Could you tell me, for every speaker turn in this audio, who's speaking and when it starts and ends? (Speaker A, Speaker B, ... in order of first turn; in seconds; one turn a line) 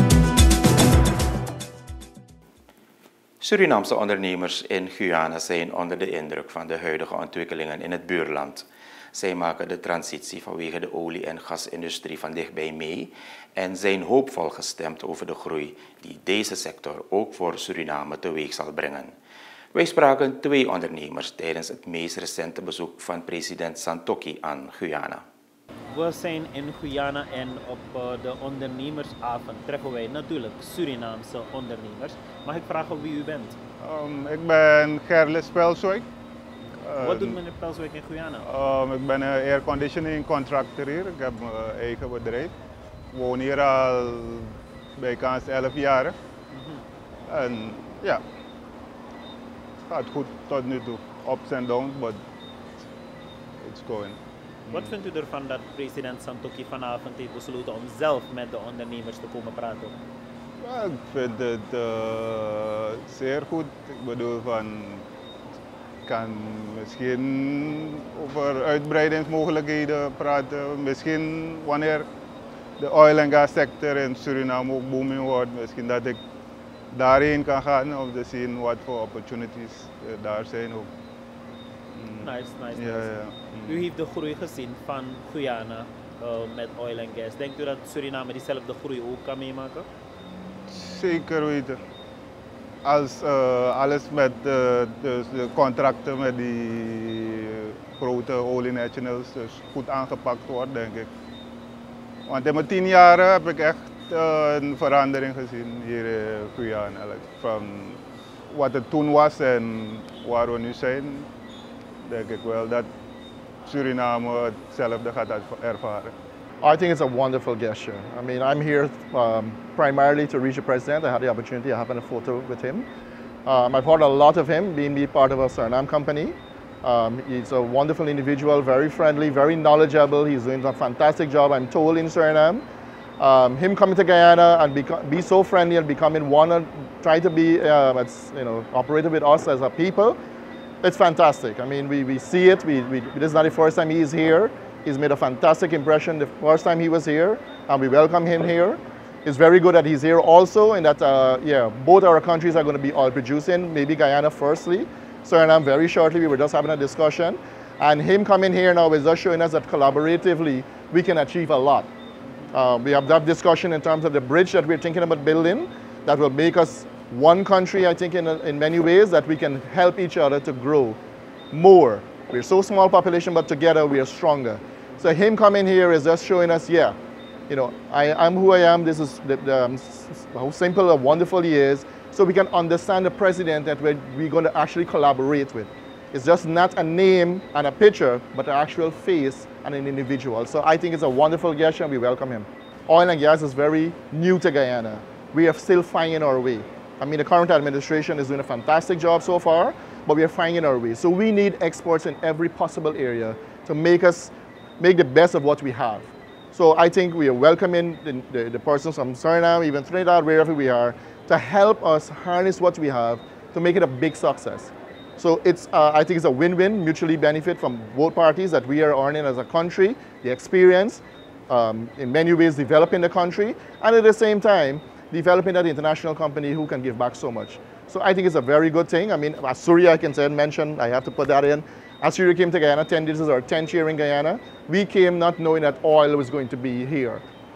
Speaker A: 3.4-19.1
Speaker A: 19.7-25.2
Speaker B: 25.9-33.5
Speaker C: 33.8-36.0
Speaker C: 36.8-37.4
Speaker B: 37.0-38.5
Speaker C: 38.4-42.5
Speaker C: 43.1-46.1
Speaker B: 46.5-46.8
Speaker C: 47.3-48.2
Speaker C: 49.9-52.2
Speaker C: 53.6-55.0
Speaker B: 54.7-60.0
Speaker C: 60.6-65.0
Speaker C: 66.0-72.1
Speaker C: 72.8-76.2
Speaker C: 76.9-80.9
Speaker C: 81.9-83.9
Speaker B: 82.1-89.8
Speaker C: 90.7-91.8
Speaker C: 92.8-101.1
Speaker C: 102.3-111.3
Speaker C: 112.0-112.9
Speaker C: 113.7-116.1
Speaker D: 116.6-122.8
Speaker D: 123.5-132.6
Speaker D: 133.2-140.2
Speaker D: 140.8-161.9
Speaker D: 162.5-171.0
Speaker D: 171.5-176.9
Speaker D: 177.5-237.2